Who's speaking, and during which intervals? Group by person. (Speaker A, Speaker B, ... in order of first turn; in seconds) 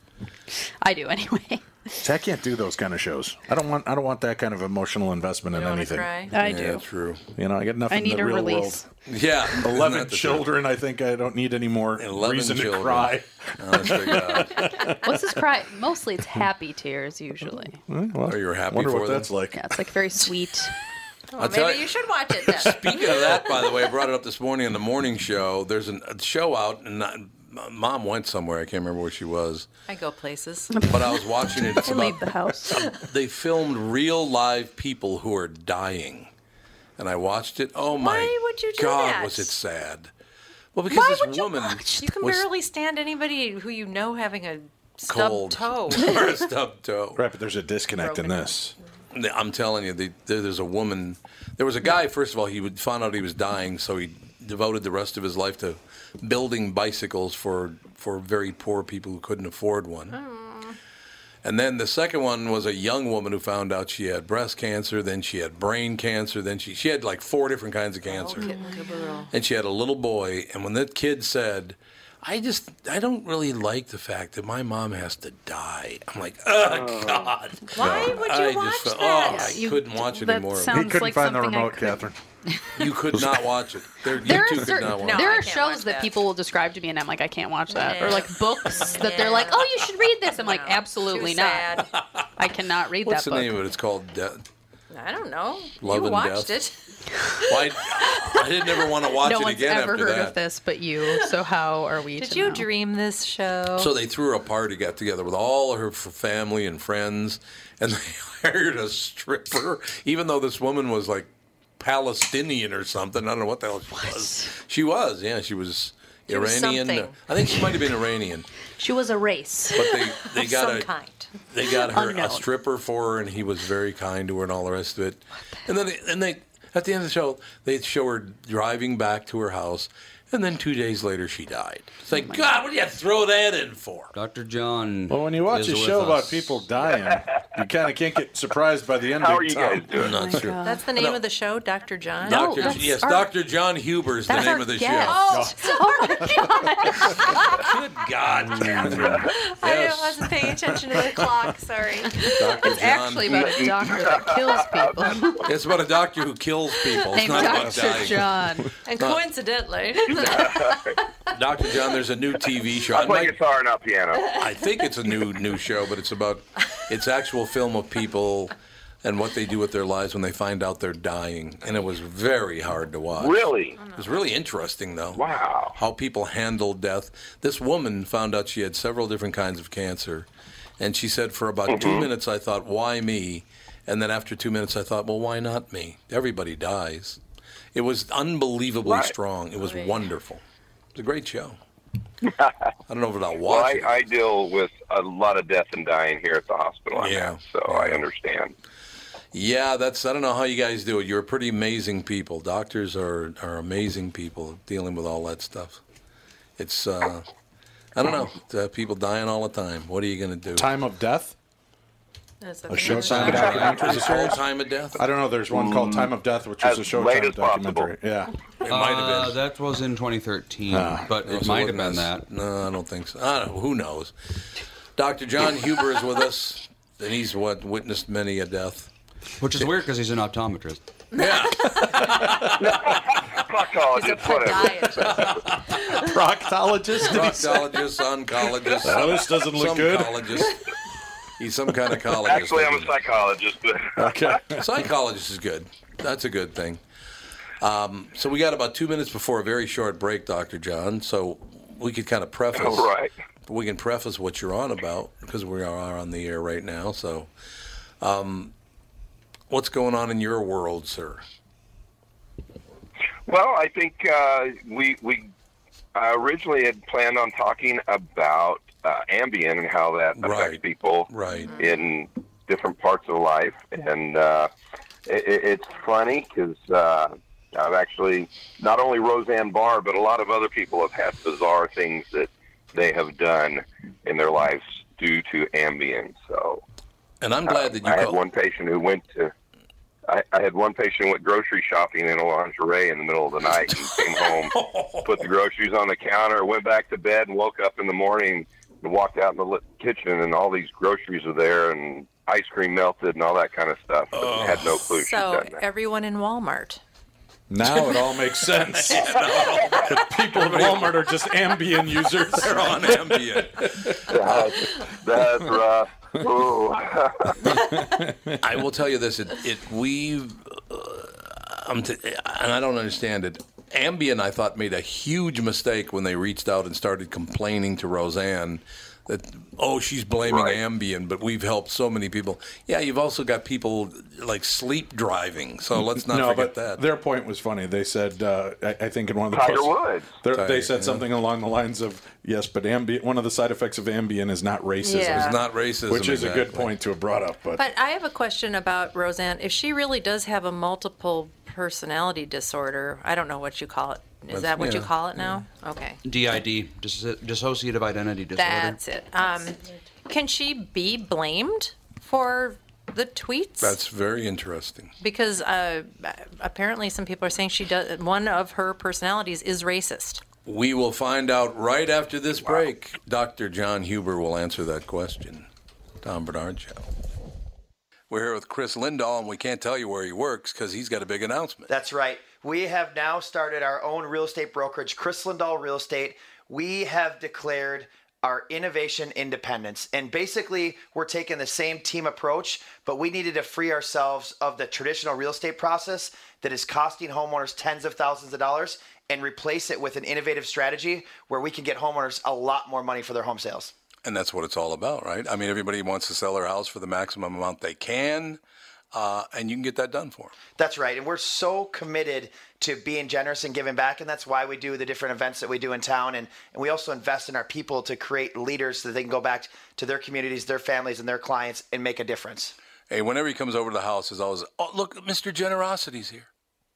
Speaker A: 0.5-2.1, 6.3-6.8, 7.9-8.9, 15.0-17.8, 19.5-20.8, 30.7-32.9, 40.9-42.2, 68.4-69.3, 79.2-82.1, 84.1-91.8, 92.4-93.6, 99.1-102.7, 113.9-114.5, 118.8-119.8, 121.8-122.5, 132.1-132.5, 140.0-140.9, 142.2-143.3, 144.3-147.6, 152.2-155.5, 157.1-158.7
Speaker B: 2.0-6.2, 7.3-8.8, 9.6-15.0, 17.9-19.6, 47.2-48.8, 80.7-82.2, 83.1-83.4, 135.1-140.5, 145.3-145.6, 148.5-149.2, 210.6-211.4, 212.7-214.4, 214.9-218.3, 220.7-221.1, 235.9-237.8, 238.8-240.5, 244.0-244.7, 307.5-314.1, 317.4-318.4, 335.9-347.6
Speaker C: 5.5-6.3, 21.3-23.9, 29.9-30.7, 38.0-39.5, 42.0-46.1, 48.0-48.6, 60.1-60.8, 68.1-69.3, 77.7-79.6, 85.0-86.1, 87.7-91.9, 94.9-96.8, 102.2-103.9, 116.3-117.2, 119.9-121.3, 140.6-142.8, 145.1-146.2, 148.7-152.3, 158.8-161.0, 173.8-174.3, 189.6-190.0, 212.4-214.0, 231.1-232.2, 233.9-236.2, 271.4-271.8, 305.0-306.8, 344.8-345.3, 347.6-356.0, 358.4-363.8, 365.0-370.2
Speaker D: 6.3-7.2, 9.1-10.5, 12.0-14.9, 18.3-19.3, 21.4-21.9, 22.4-29.7, 30.9-36.3, 37.0-40.1, 40.7-42.4, 45.1-47.2, 49.1-60.2, 61.4-68.5, 69.3-80.8, 82.8-85.5, 93.0-94.4, 95.8-96.6, 97.5-100.4, 103.8-118.5, 119.8-120.9, 121.5-134.1, 140.0-141.2, 142.2-145.2, 147.5-150.3, 152.3-153.5, 155.4-158.3, 161.3-163.3, 164.3-173.4, 173.9-175.2, 175.8-180.3, 180.8-187.2, 187.7-190.4, 190.9-191.6, 192.9-193.9, 197.0-198.0, 199.3-205.8, 206.6-207.3, 207.9-210.7, 212.9-215.0, 218.6-219.4, 221.2-224.1, 225.0-228.9, 231.2-232.6, 235.1-235.4, 237.0-240.6, 241.4-243.0, 244.5-246.8, 247.6-252.9, 253.5-257.3, 258.0-258.5, 259.5-261.2, 270.2-271.5, 287.2-288.2, 293.9-295.2, 304.1-304.8, 307.6-311.0, 312.2-314.4, 318.4-336.8, 340.3-341.1, 345.1-346.7, 354.3-354.9, 363.6-364.9, 370.5-375.5, 376.0-376.9, 378.1-381.7, 404.0-408.4, 408.9-410.3, 422.9-426.3
Speaker E: 134.1-136.6, 213.1-213.4, 218.7-222.3, 229.4-230.8, 356.0-358.8
Speaker F: 139.2-140.1, 153.3-154.9, 160.1-161.0, 162.9-164.3, 173.2-173.8, 175.2-175.8, 181.7-182.1, 188.8-189.1, 193.4-198.5, 215.5-217.9, 232.6-235.4, 242.2-244.4, 252.5-253.1, 263.3-265.3, 265.9-274.5, 275.1-286.6, 287.5-289.3, 290.1-305.6, 314.1-317.4, 330.2-330.6, 339.3-340.1
Speaker G: 381.7-403.7, 410.6-422.6